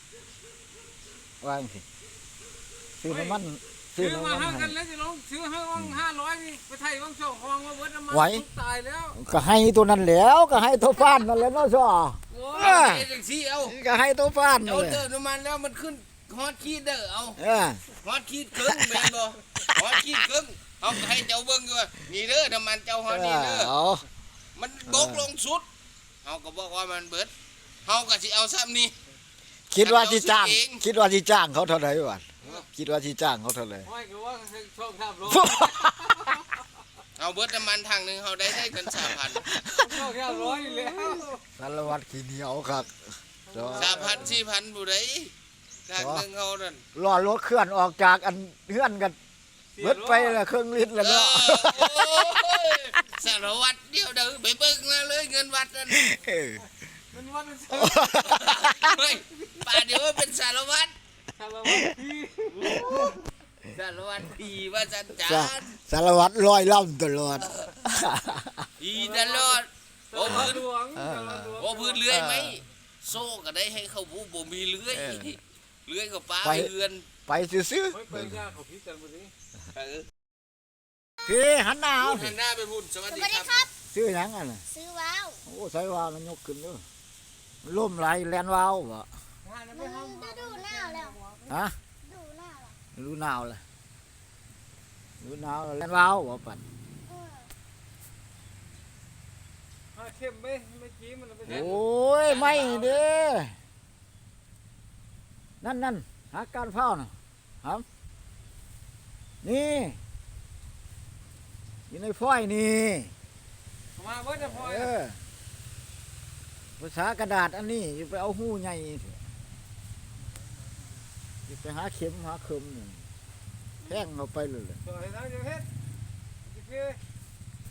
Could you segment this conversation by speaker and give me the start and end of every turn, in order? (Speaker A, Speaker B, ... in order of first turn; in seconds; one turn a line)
Speaker A: 1.4-1.8
Speaker A: 3.0-4.8
Speaker B: 3.1-3.4
Speaker B: 4.0-9.2
Speaker A: 5.8-6.0
Speaker A: 8.1-8.5
Speaker A: 9.1-13.1
Speaker B: 12.3-12.6
Speaker C: 12.5-13.8
Speaker A: 13.6-15.1
Speaker C: 14.6-17.4
Speaker A: 17.4-17.9
Speaker C: 18.0-23.8
Speaker A: 18.6-20.1
Speaker A: 23.1-24.1
Speaker C: 24.6-25.7
Speaker A: 24.9-25.3
Speaker C: 26.2-27.3
Speaker C: 27.9-28.9
Speaker A: 29.7-33.9
Speaker C: 29.8-30.8
Speaker B: 33.9-35.9
Speaker A: 35.3-36.2
Speaker C: 37.2-39.5
Speaker A: 38.6-40.5
Speaker B: 39.7-41.4
Speaker A: 41.6-44.1
Speaker B: 43.5-44.4
Speaker C: 43.8-45.3
Speaker C: 45.9-46.8
Speaker A: 46.0-46.3
Speaker A: 47.0-49.2
Speaker B: 49.8-50.4
Speaker A: 49.8-52.4
Speaker C: 51.0-56.2
Speaker A: 55.9-56.6
Speaker B: 57.1-58.0
Speaker A: 57.7-58.9
Speaker C: 58.0-61.0
Speaker B: 61.3-62.8
Speaker C: 62.7-63.0
Speaker A: 62.8-63.1
Speaker D: 62.8-63.1
Speaker C: 63.6-65.8
Speaker A: 65.2-68.7
Speaker C: 68.8-70.7
Speaker B: 69.0-69.6
Speaker B: 70.1-72.0
Speaker A: 70.2-71.5
Speaker C: 71.6-77.1
Speaker A: 72.2-72.6
Speaker A: 74.9-75.4
Speaker A: 76.4-76.7
Speaker A: 77.3-78.5
Speaker B: 77.9-79.3
Speaker C: 79.8-80.1
Speaker A: 81.2-82.4
Speaker C: 82.0-83.7
Speaker D: 83.1-83.7
Speaker A: 83.9-84.7
Speaker D: 84.7-85.4
Speaker A: 85.5-86.8
Speaker A: 87.6-89.1
Speaker B: 89.5-91.5
Speaker D: 89.7-91.2
Speaker A: 91.5-91.8
Speaker D: 92.0-92.8
Speaker A: 92.9-93.6
Speaker A: 95.2-96.6
Speaker D: 97.1-97.5
Speaker B: 100.0-101.8
Speaker C: 101.5-103.1
Speaker A: 101.5-103.6
Speaker A: 105.6-107.1
Speaker A: 109.4-110.0
Speaker A: 111.9-113.1
Speaker B: 114.0-114.9
Speaker A: 114.4-115.2
Speaker A: 116.8-119.2
Speaker A: 121.5-123.1
Speaker D: 123.8-124.1
Speaker A: 123.9-124.8
Speaker B: 124.9-125.7
Speaker B: 126.5-127.0